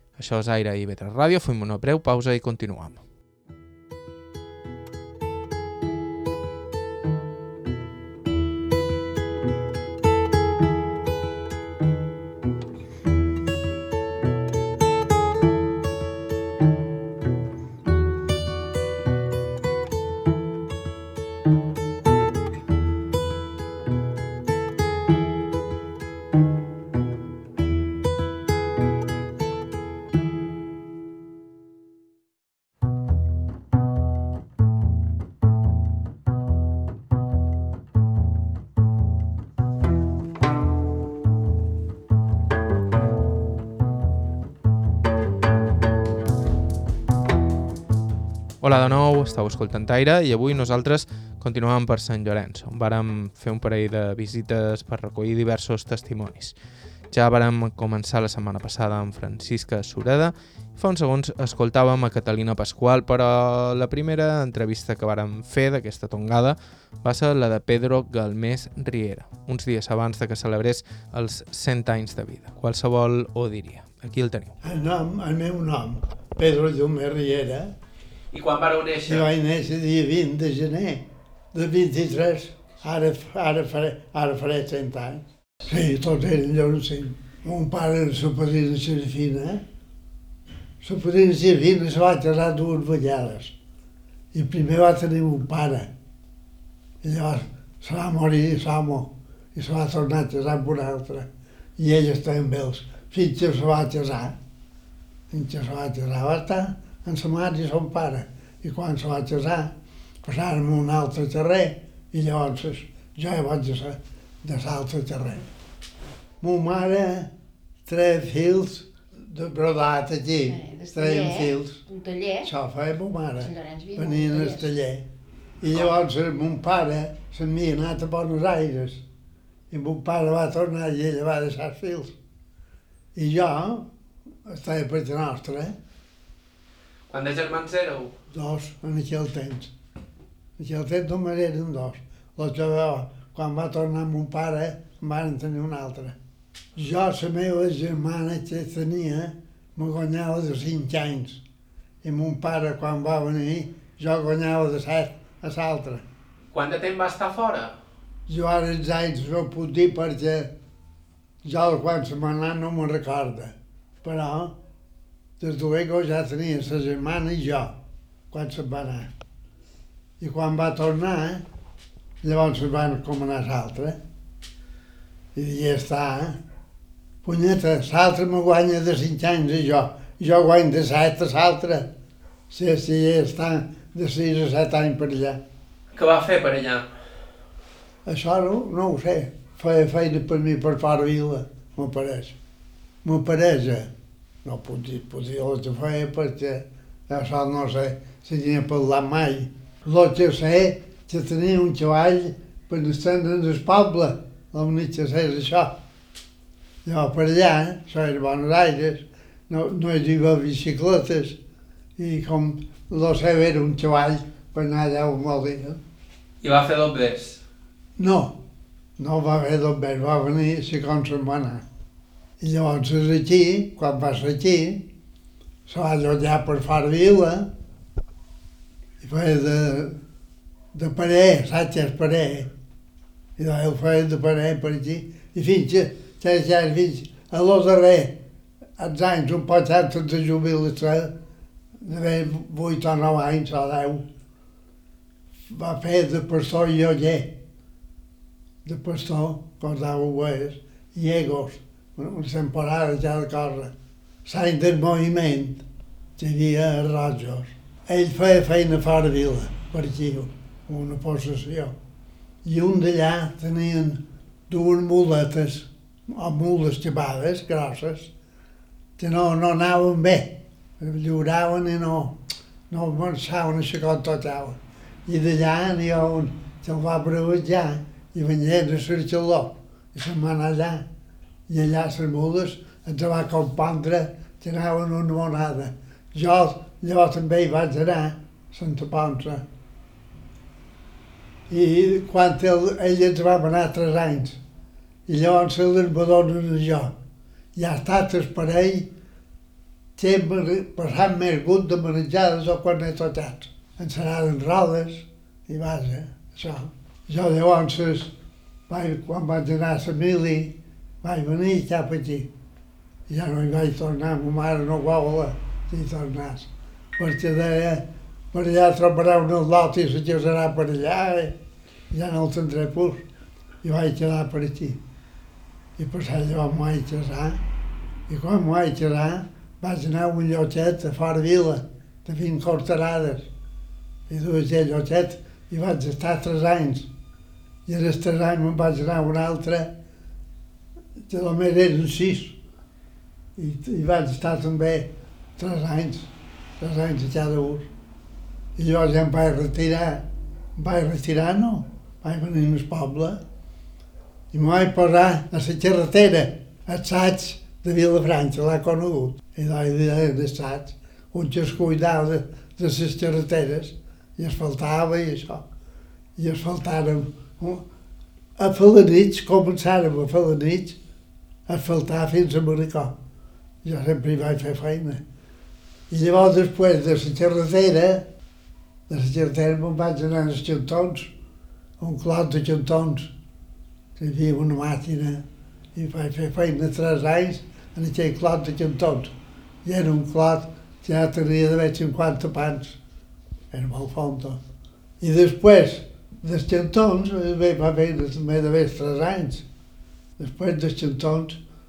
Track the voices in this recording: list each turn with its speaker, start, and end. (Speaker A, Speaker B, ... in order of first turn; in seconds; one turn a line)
Speaker A: 0.2-3.0
Speaker A: 48.6-56.5
Speaker A: 57.1-74.6
Speaker B: 74.6-77.7
Speaker A: 78.3-79.3
Speaker B: 79.1-89.6
Speaker B: 90.8-93.5
Speaker B: 94.3-95.9
Speaker B: 97.0-101.3
Speaker B: 101.8-104.3
Speaker B: 105.3-109.7
Speaker B: 110.2-115.4
Speaker B: 116.4-117.3
Speaker B: 117.9-121.8
Speaker C: 120.5-122.5
Speaker B: 122.4-125.1
Speaker C: 123.4-124.7
Speaker B: 125.6-129.0
Speaker B: 129.7-132.2
Speaker B: 133.2-133.9
Speaker B: 134.5-135.8
Speaker A: 137.1-138.1
Speaker B: 138.3-139.7
Speaker B: 140.6-146.2
Speaker B: 146.8-151.4
Speaker B: 152.0-156.0
Speaker A: 156.5-157.8
Speaker B: 158.3-160.5
Speaker B: 161.4-164.5
Speaker B: 165.4-167.8
Speaker B: 168.3-169.1
Speaker B: 170.2-171.4
Speaker B: 172.2-174.0
Speaker B: 175.3-176.4
Speaker B: 177.2-181.9
Speaker B: 182.5-185.4
Speaker A: 185.9-186.9
Speaker B: 188.1-192.3
Speaker B: 193.0-193.9
Speaker B: 194.4-205.7
Speaker B: 206.8-211.4
Speaker B: 212.0-215.8
Speaker A: 216.4-217.4
Speaker B: 218.0-218.4
Speaker B: 219.0-221.6
Speaker B: 222.4-224.8
Speaker B: 225.7-227.5
Speaker B: 229.0-230.0
Speaker B: 230.7-232.5
Speaker B: 233.4-238.1
Speaker B: 238.8-241.1
Speaker B: 241.8-244.0
Speaker B: 245.5-247.3
Speaker B: 248.7-253.7
Speaker B: 254.2-255.6
Speaker B: 256.2-261.7
Speaker B: 262.4-268.1
Speaker B: 269.0-272.1
Speaker B: 272.7-280.9
Speaker B: 281.5-289.4
Speaker B: 291.5-294.4
Speaker B: 295.1-296.9
Speaker B: 297.6-298.9
Speaker B: 300.0-308.1
Speaker B: 308.7-312.3
Speaker B: 313.1-321.3
Speaker B: 321.9-323.0
Speaker B: 323.6-324.8
Speaker B: 325.8-327.4
Speaker B: 328.1-333.3
Speaker B: 334.1-336.9
Speaker B: 337.7-339.7
Speaker B: 341.1-342.4
Speaker B: 343.4-346.1
Speaker B: 346.6-347.7
Speaker B: 348.6-350.1
Speaker B: 350.6-353.2
Speaker B: 354.3-365.4
Speaker B: 366.2-367.6
Speaker B: 368.4-370.8
Speaker B: 371.5-372.9
Speaker B: 373.6-375.0
Speaker B: 375.9-378.1
Speaker B: 378.9-381.1
Speaker B: 381.8-383.1
Speaker B: 384.0-385.2
Speaker B: 385.8-389.1
Speaker B: 389.6-392.8
Speaker B: 393.5-394.4
Speaker B: 395.0-399.4
Speaker B: 400.2-401.4